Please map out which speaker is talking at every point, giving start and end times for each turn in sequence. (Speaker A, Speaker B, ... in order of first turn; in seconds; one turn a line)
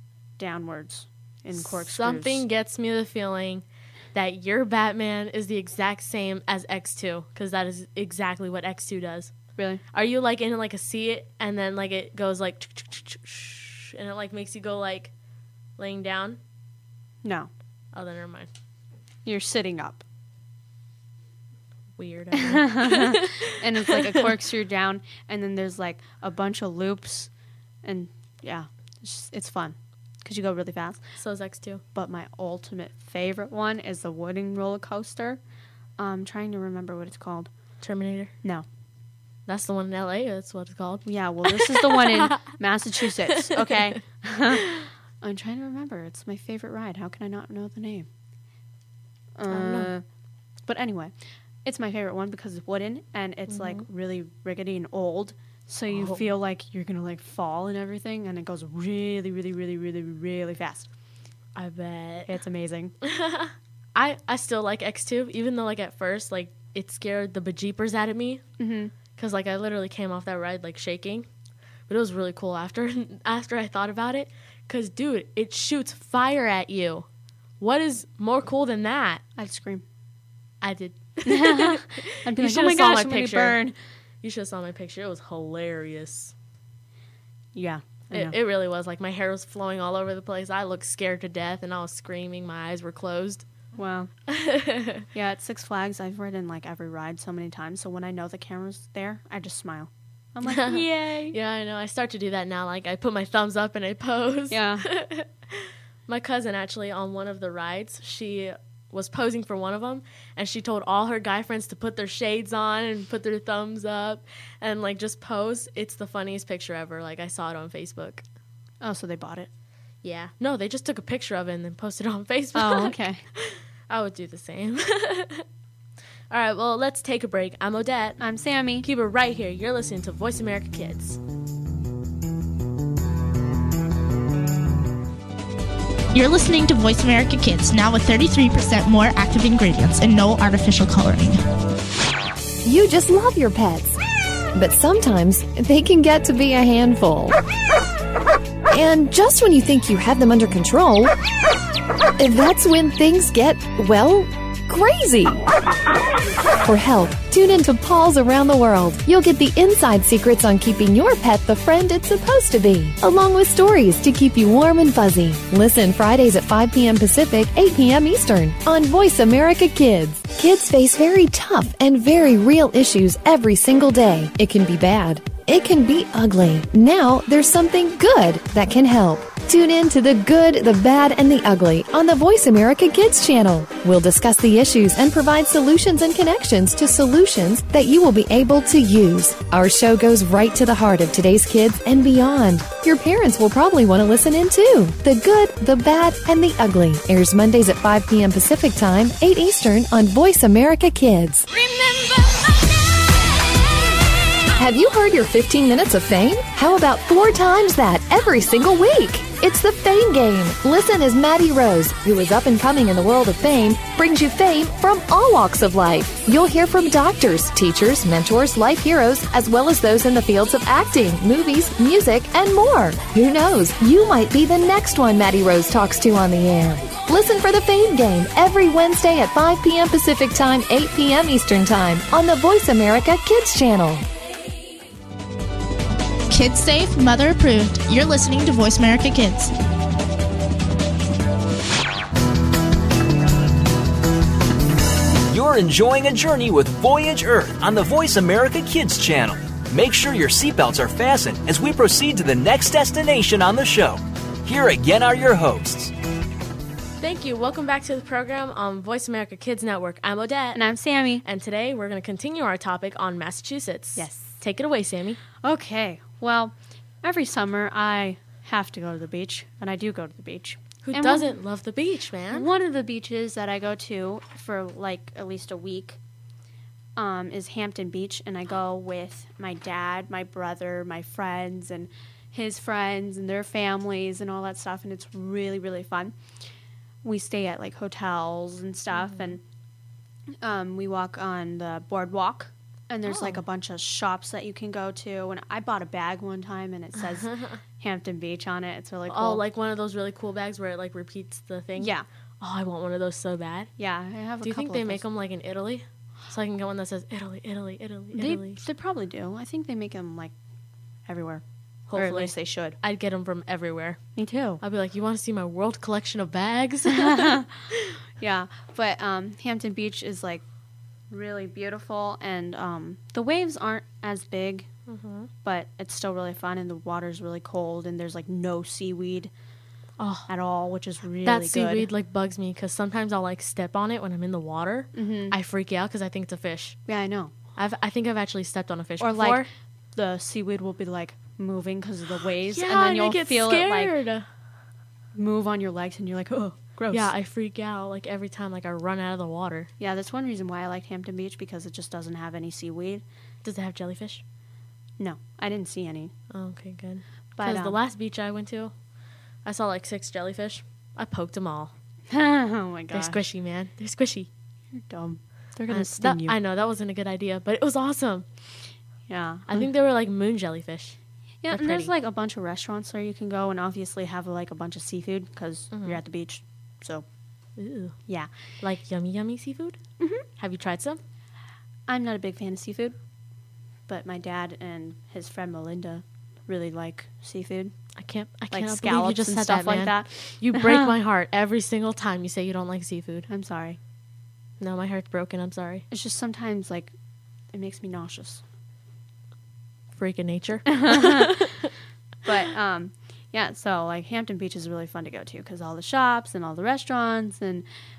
Speaker A: 0.4-2.4
Speaker B: 1.5-9.3
Speaker A: 9.6-9.8
Speaker B: 9.9-15.1
Speaker B: 15.8-16.4
Speaker A: 17.2-17.5
Speaker B: 17.9-18.5
Speaker A: 19.2-20.0
Speaker B: 22.0-24.3
Speaker A: 22.3-27.3
Speaker A: 27.8-31.0
Speaker B: 31.2-31.8
Speaker A: 31.9-35.4
Speaker A: 36.0-37.5
Speaker B: 37.8-38.3
Speaker B: 39.5-42.5
Speaker A: 41.0-48.1
Speaker B: 43.3-43.9
Speaker B: 44.5-44.9
Speaker A: 49.4-50.0
Speaker B: 49.5-49.9
Speaker A: 50.6-60.9
Speaker B: 53.5-53.8
Speaker B: 55.9-56.2
Speaker B: 61.5-62.4
Speaker A: 62.3-62.9
Speaker B: 63.0-68.4
Speaker A: 68.6-68.9
Speaker B: 69.1-71.2
Speaker B: 71.9-77.0
Speaker B: 77.6-79.2
Speaker A: 79.4-79.8
Speaker B: 80.6-83.6
Speaker A: 81.2-83.7
Speaker B: 84.2-86.3
Speaker A: 87.5-88.3
Speaker B: 88.1-93.4
Speaker A: 93.8-94.1
Speaker B: 94.3-95.0
Speaker A: 95.1-101.3
Speaker B: 100.4-118.2
Speaker A: 104.5-104.8
Speaker A: 118.8-119.5
Speaker B: 120.0-125.4
Speaker A: 122.5-123.2
Speaker B: 126.3-128.2
Speaker A: 128.2-128.9
Speaker B: 128.8-131.2
Speaker C: 136.1-141.4
Speaker D: 142.6-144.0
Speaker D: 144.5-147.4
Speaker D: 148.7-151.1
Speaker D: 152.2-155.4
Speaker D: 156.6-201.5
Speaker D: 204.5-234.1
Speaker C: 236.3-239.5
Speaker E: 245.3-255.9
Speaker B: 257.0-260.6
Speaker A: 260.5-261.2
Speaker B: 261.2-265.2
Speaker A: 263.9-264.3
Speaker A: 265.4-271.3
Speaker B: 270.8-272.5
Speaker A: 272.3-276.0
Speaker A: 276.9-286.1
Speaker A: 287.0-289.4
Speaker A: 290.4-299.4
Speaker B: 293.0-293.4
Speaker B: 297.1-297.6
Speaker B: 299.1-303.7
Speaker A: 301.8-302.1
Speaker A: 303.8-305.0
Speaker B: 304.4-308.6
Speaker A: 308.1-310.3
Speaker A: 311.1-312.8
Speaker B: 311.9-314.0
Speaker A: 314.2-314.6
Speaker B: 314.6-317.9
Speaker A: 316.9-317.5
Speaker A: 318.2-320.4
Speaker A: 321.1-324.7
Speaker B: 324.9-325.3
Speaker A: 325.4-329.3
Speaker B: 330.0-330.3
Speaker A: 330.3-331.9
Speaker B: 331.2-336.8
Speaker A: 334.9-335.4
Speaker A: 336.9-337.3
Speaker B: 337.6-339.4
Speaker A: 339.0-343.9
Speaker B: 342.5-344.2
Speaker A: 345.1-347.1
Speaker B: 346.9-349.7
Speaker A: 349.8-353.0
Speaker B: 353.4-354.2
Speaker A: 355.0-356.1
Speaker B: 356.3-358.7
Speaker A: 357.4-357.8
Speaker B: 359.4-361.7
Speaker A: 362.1-363.2
Speaker B: 362.9-364.3
Speaker A: 364.8-366.4
Speaker B: 365.7-368.2
Speaker A: 369.1-369.7
Speaker B: 369.5-370.9
Speaker A: 371.4-377.0
Speaker B: 371.5-371.9
Speaker B: 375.7-376.0
Speaker B: 377.6-377.9
Speaker B: 378.6-379.8
Speaker A: 380.0-380.2
Speaker B: 380.4-381.0
Speaker A: 381.9-383.0
Speaker A: 383.9-387.7
Speaker B: 388.0-393.3
Speaker A: 388.5-390.9
Speaker A: 393.3-393.8
Speaker B: 394.6-395.8
Speaker A: 395.9-396.9
Speaker A: 397.5-398.4
Speaker B: 399.9-401.7
Speaker A: 400.7-401.5
Speaker A: 402.2-407.6